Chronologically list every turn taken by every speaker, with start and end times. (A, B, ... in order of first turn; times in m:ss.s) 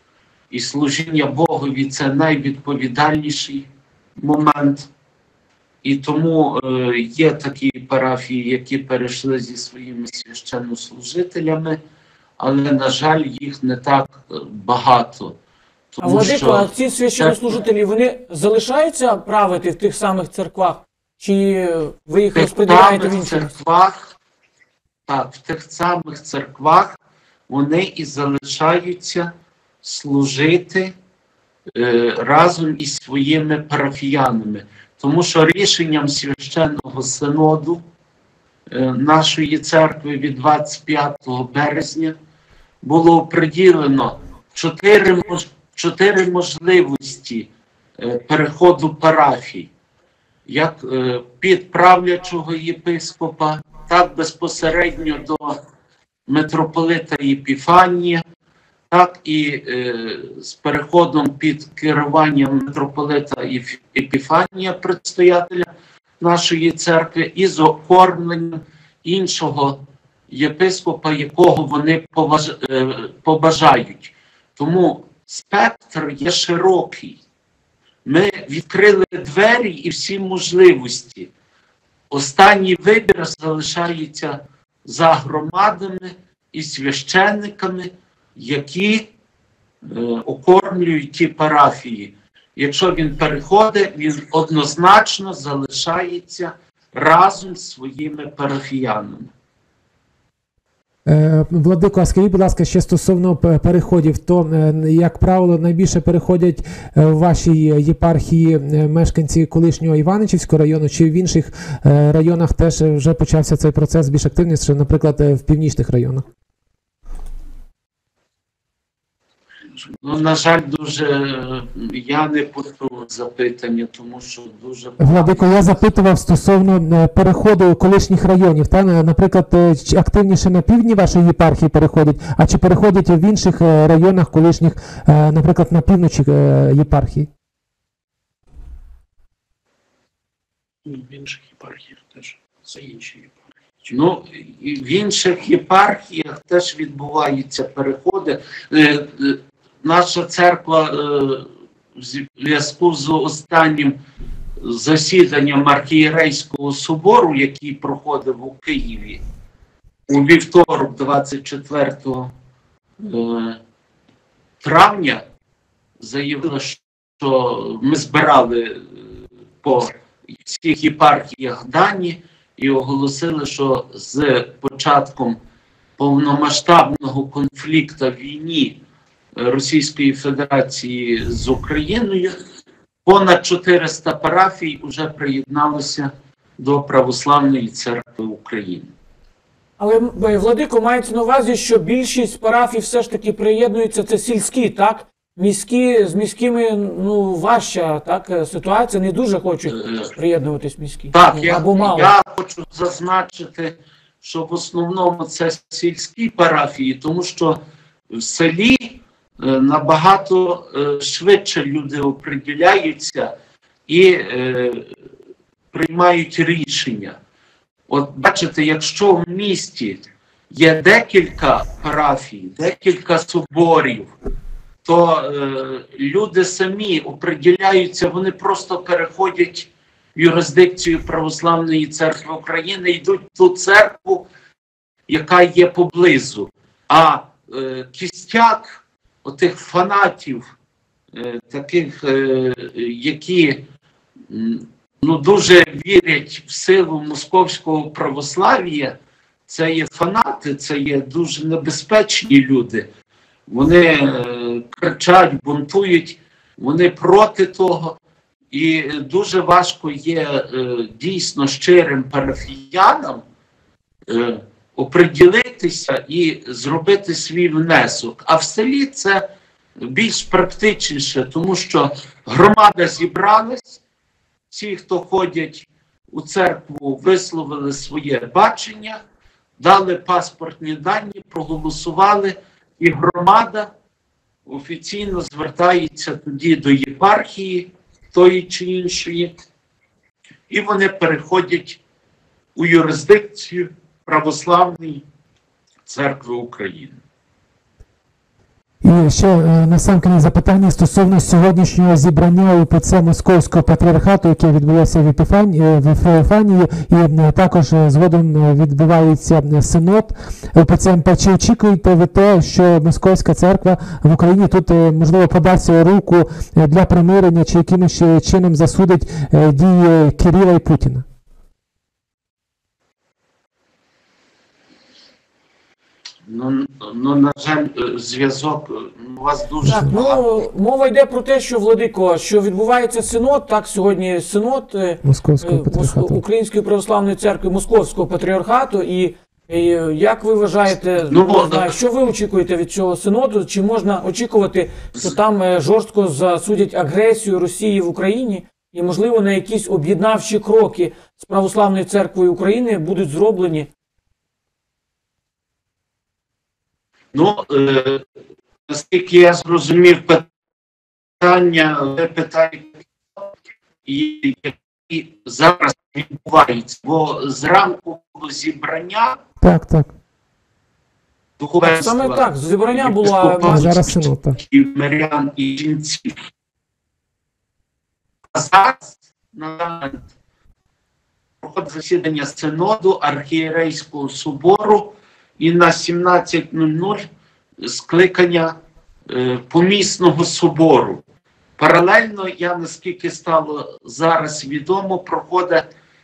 0:00.5-0:03.7 A
0:04.2-0:04.9 A
0:05.8-0:11.8 A
0:12.4-0:15.4 A
0:15.9-0:17.4 A
0:16.0-0:23.5 B
0:22.3-0:24.1 A
0:25.1-0:27.0 A
0:27.5-0:29.3 A
0:29.8-0:30.9 A
0:31.7-0:37.8 A
0:38.7-0:42.1 A
0:42.8-0:49.7 A
0:50.4-0:55.6 A
0:56.3-0:58.2 A
0:58.9-1:05.7 A
1:06.2-1:17.2 A
1:18.0-1:21.3 A
1:22.1-1:29.1 A
1:29.8-1:39.3 A
1:41.1-1:56.2 C
1:59.8-2:05.9 A
2:05.0-2:17.3 C
2:20.9-2:23.9 D
2:23.9-2:34.0 A
2:34.6-2:39.2 A
2:40.1-2:42.3 A
2:43.0-2:43.6 A
2:44.6-2:45.2 A
2:46.0-2:55.4 A
2:56.0-2:58.8 A
2:59.4-3:02.3 A
3:03.0-3:08.9 A
3:09.8-3:22.1 B
3:19.7-3:20.1 A
3:21.1-3:27.6 A
3:28.1-3:33.3 A
3:33.9-3:35.0 A
3:35.7-3:37.2 A
3:37.9-3:44.1 A
3:44.8-3:54.3 A
3:55.1-4:00.5 A
4:01.1-4:03.6 A
4:04.3-4:09.0 A
4:09.5-4:12.9 A
4:13.5-4:18.0 A
4:18.5-4:23.2 A
4:24.1-4:29.2 A
4:29.8-4:33.8 A
4:34.5-4:39.0 A
4:39.6-4:43.7 A
4:44.5-4:49.3 A
4:50.5-4:51.8 A
4:52.5-4:55.1 A
4:55.8-4:57.0 A
4:58.8-5:21.1 C
5:26.2-5:30.2 A
5:29.6-5:29.9 C
5:29.6-5:53.7 B
5:35.0-5:36.2 C
5:41.1-5:41.7 A
5:57.1-5:58.0 A
5:58.7-6:00.3 A
6:01.2-6:03.3 A
6:03.8-6:09.2 A
6:09.4-6:09.9 C
6:11.4-6:16.1 A
6:11.6-6:13.8 B
6:13.5-6:14.4 C
6:18.3-6:20.1 A
6:21.4-6:27.0 A
6:27.6-6:28.5 A
6:29.1-6:31.0 A
6:31.6-6:35.6 A